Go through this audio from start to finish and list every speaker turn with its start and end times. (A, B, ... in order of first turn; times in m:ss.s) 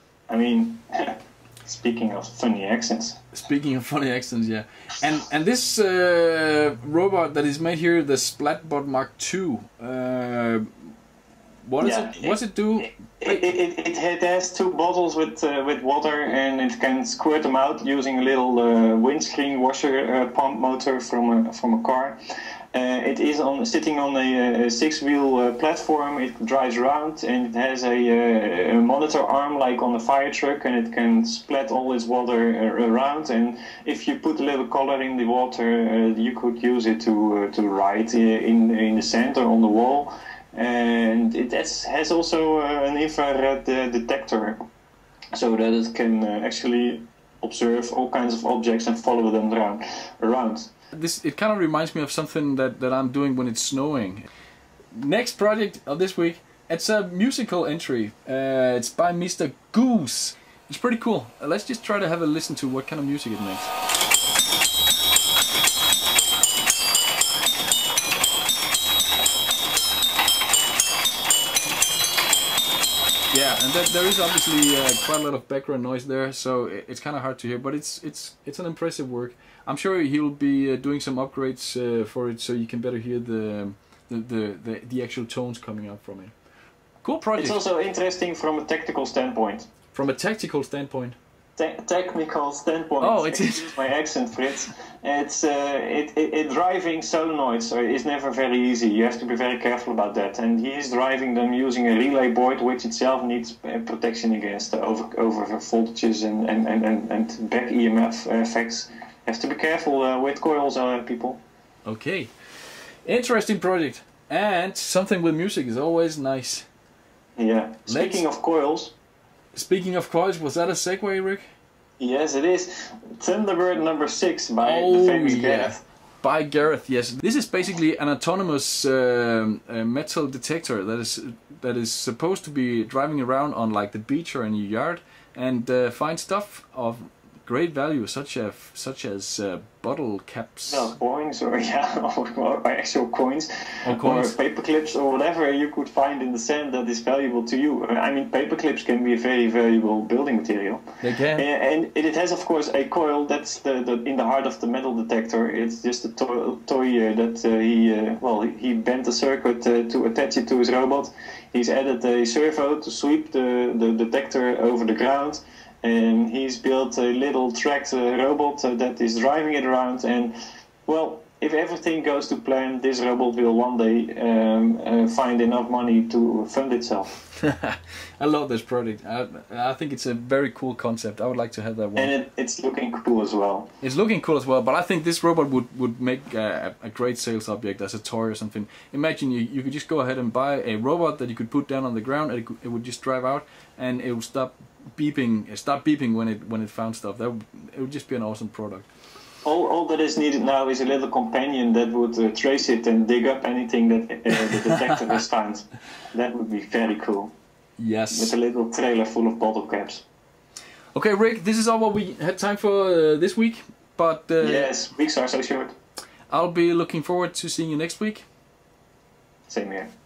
0:00.3-0:03.2 A
0:03.3-0:10.7 B
0:11.7-0:13.5 B
0:11.8-0:12.4 A
0:12.9-0:22.2 A
0:22.7-0:44.6 A
0:45.3-0:50.7 A
0:50.9-0:54.2 B
0:54.9-1:03.7 B
1:13.3-1:26.3 B
1:27.0-1:27.6 B
1:27.4-1:29.7 A
1:29.9-1:31.2 B
1:31.6-1:51.4 A
1:33.0-1:33.8 B
1:51.8-1:52.3 B
1:53.0-1:56.7 B
1:57.4-1:58.9 A
1:57.9-1:58.2 B
1:59.5-2:01.4 B
2:02.0-2:05.8 A
2:04.6-2:20.9 B
2:20.7-2:50.3 A
2:23.8-2:24.3 B
2:31.0-2:31.4 B
2:50.9-2:57.2 A
2:57.4-3:02.1 B
3:02.0-3:03.7 A
3:03.8-3:18.9 B
3:19.4-3:27.3 A
3:27.8-3:28.3 B
3:28.1-3:30.0 A
3:30.9-3:34.7 B
3:34.4-3:35.7 A
3:36.3-3:38.2 B
3:39.5-3:39.9 A